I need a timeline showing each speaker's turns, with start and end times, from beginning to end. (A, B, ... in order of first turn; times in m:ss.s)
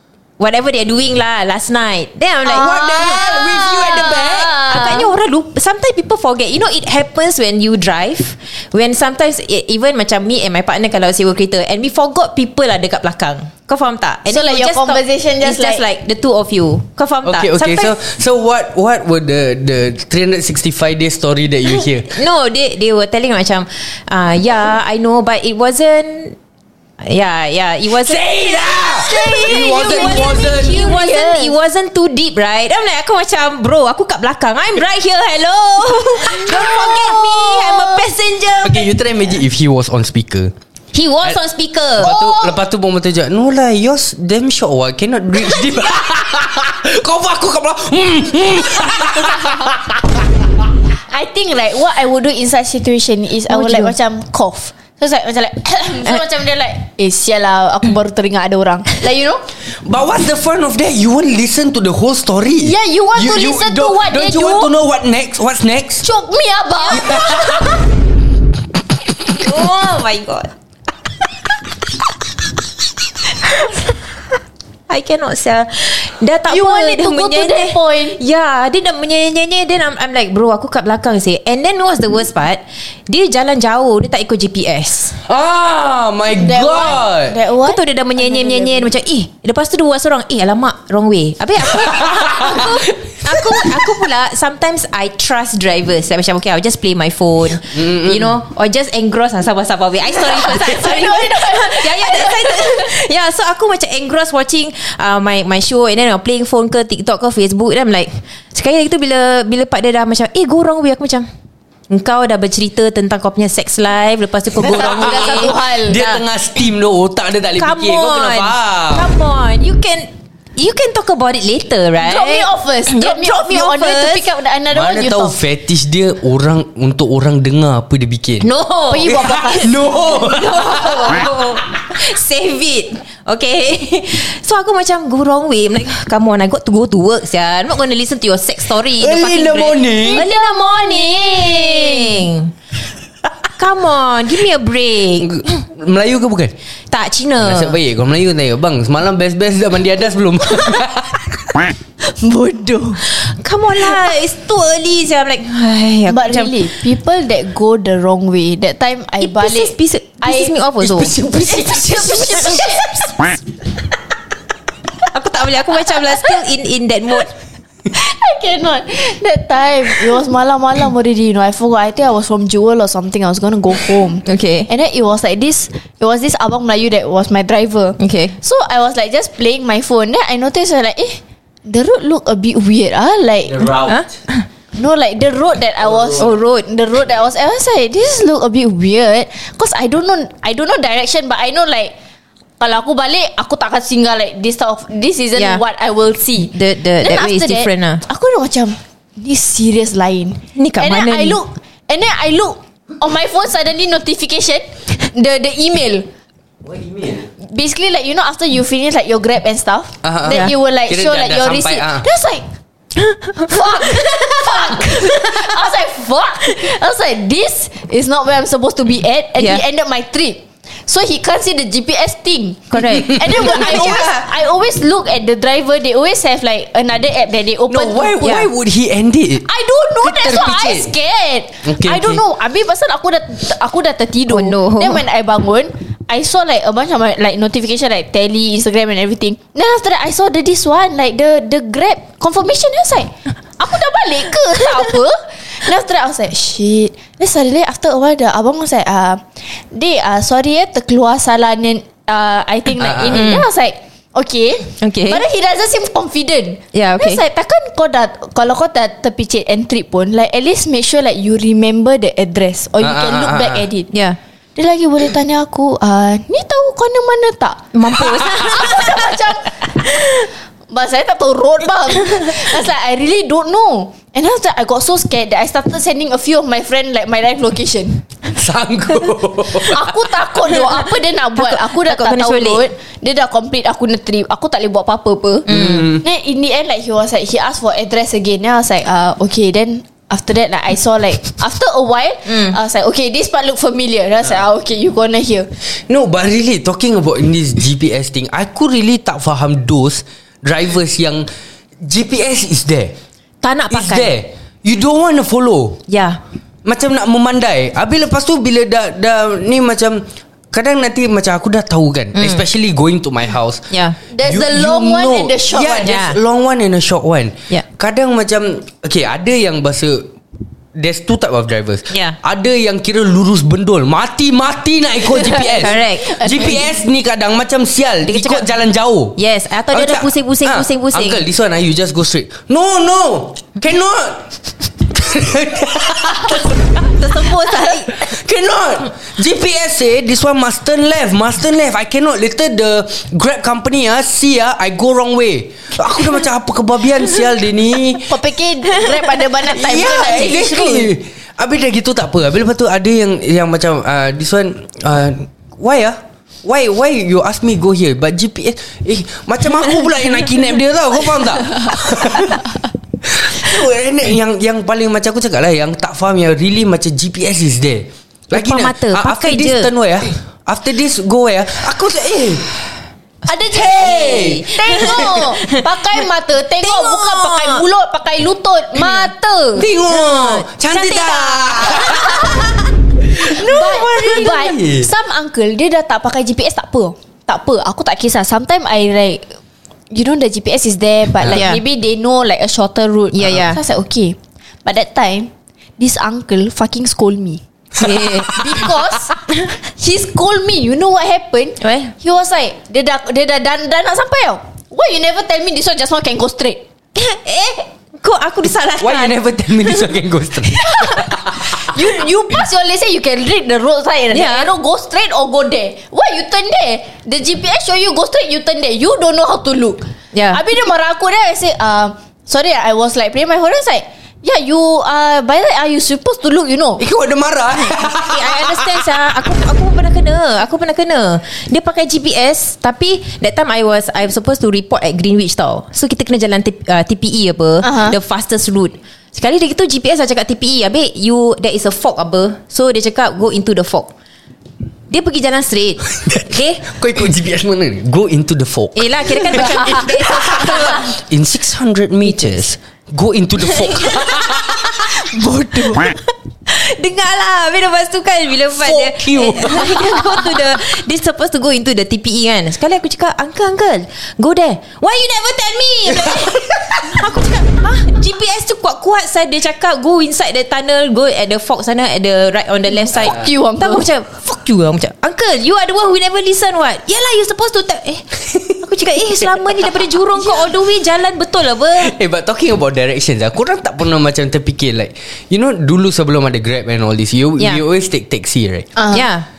0:00.4-0:03.2 A
0:02.5-0:05.1 B
0:02.5-0:04.6 C
0:04.7-0:17.9 A
0:14.3-0:15.8 B
0:17.2-0:22.1 C
0:22.0-0:26.4 A
0:27.0-0:28.2 A
0:27.9-0:30.9 C
0:28.9-0:38.9 A
0:29.0-0:31.6 B
0:36.2-0:38.1 B
0:38.6-0:40.5 C
0:40.9-0:42.1 A
0:42.0-0:50.4 C
0:42.0-0:42.6 B
0:51.1-0:59.4 B
0:53.5-0:53.9 A
0:59.8-1:06.1 C
1:02.6-1:04.7 B
1:06.0-1:07.8 B
1:06.9-1:07.8 C
1:09.3-1:10.5 A
1:14.9-1:25.2 A
1:16.5-1:18.2 B
1:25.2-1:27.4 C
1:26.4-1:28.9 B
1:27.6-1:51.3 A
1:31.8-1:32.6 C
1:33.3-1:33.8 C
1:37.7-1:38.4 C
1:40.2-1:42.9 B
1:51.9-1:56.2 A
1:54.6-1:59.1 C
1:54.6-1:56.1 B
1:57.6-2:04.3 A
2:02.0-2:05.4 B
2:04.7-2:08.5 C
2:08.4-2:09.3 A
2:08.9-2:11.2 B
2:09.0-2:11.2 C
2:10.6-2:22.5 A
2:19.0-2:20.2 C
2:19.9-2:22.3 B
2:23.6-2:25.6 A
2:25.2-2:26.5 C
2:26.9-2:27.8 A
2:27.4-2:31.7 C
2:32.0-2:33.0 B
2:33.1-2:36.6 A
2:36.1-2:43.1 B
2:39.2-2:43.0 A
2:45.1-2:47.3 A
2:47.9-3:03.7 B
2:54.2-2:54.7 A
2:58.0-2:58.4 A
3:03.4-3:04.2 C
3:03.9-3:04.4 A
3:04.8-3:11.9 B
3:05.8-3:06.2 C
3:06.2-3:06.7 A
3:12.6-3:26.1 B
3:15.4-3:15.6 A
3:16.4-3:18.0 A
3:20.6-3:21.4 A
3:26.6-3:27.3 C
3:27.4-3:32.5 B
3:30.0-3:32.1 C
3:33.0-3:34.4 A
3:33.4-3:48.4 B
3:34.9-3:35.2 A
3:39.4-3:39.6 A
3:42.7-3:44.2 A
3:43.1-3:43.6 C
3:47.7-3:49.5 C
3:49.4-4:23.9 B
3:50.0-3:50.9 C
3:51.6-3:52.2 C
3:54.3-3:55.0 A
4:12.8-4:13.2 C
4:13.1-4:13.5 A
4:14.8-4:15.2 A
4:16.7-4:17.2 A
4:22.8-4:23.7 C
4:23.9-4:24.2 A
4:24.6-4:38.0 B
4:27.7-4:29.1 A
4:38.3-4:40.0 C
4:39.5-4:45.5 B
4:41.4-4:42.7 A
4:45.5-4:45.9 A
4:45.5-4:46.0 C
4:46.0-4:55.5 B
4:52.3-4:52.6 A
4:55.9-5:01.3 C
5:01.8-5:03.0 C
5:03.4-5:04.1 A
5:03.7-5:05.8 C
5:05.9-5:06.2 A
5:06.6-5:13.7 C
5:12.2-5:12.4 A
5:13.7-5:14.0 A
5:14.1-5:16.0 B
5:14.2-5:20.1 C
5:15.8-5:16.2 A
5:20.8-5:29.2 C
5:21.9-5:22.2 A
5:25.1-5:26.7 B
5:25.6-5:26.2 A
5:28.1-5:28.5 A
5:29.2-5:31.2 A
5:29.7-5:34.3 C
5:34.8-5:48.2 C
5:36.9-5:37.9 A
5:48.0-5:50.9 B
5:49.5-6:12.6 C
6:08.3-6:09.7 A
6:13.3-6:19.7 B
6:13.5-6:15.3 C
6:14.0-6:15.7 A
6:16.6-6:17.6 A
6:18.8-6:19.1 A
6:19.6-6:24.9 C
6:19.9-6:22.4 A
6:21.7-6:22.4 B
6:23.2-6:29.3 B
6:29.9-6:37.4 B
6:31.3-6:31.6 A
6:33.1-6:33.6 A
6:37.8-6:38.5 A
6:38.2-6:46.6 B
6:41.6-6:41.9 A
6:47.0-6:49.8 A
6:48.8-6:51.8 C
6:50.7-7:06.8 B
6:54.1-6:54.5 A
7:00.1-7:00.4 A
7:06.8-7:08.9 C
7:07.8-7:23.9 A
7:17.6-7:18.0 B
7:24.9-7:26.6 A
7:26.0-7:34.9 C
7:28.8-7:30.9 A
7:35.0-7:35.9 B
7:36.5-8:01.9 A
7:38.6-7:40.4 C
7:52.9-7:53.9 B
8:01.8-8:08.7 C
8:08.8-8:09.0 B
8:08.9-8:09.3 A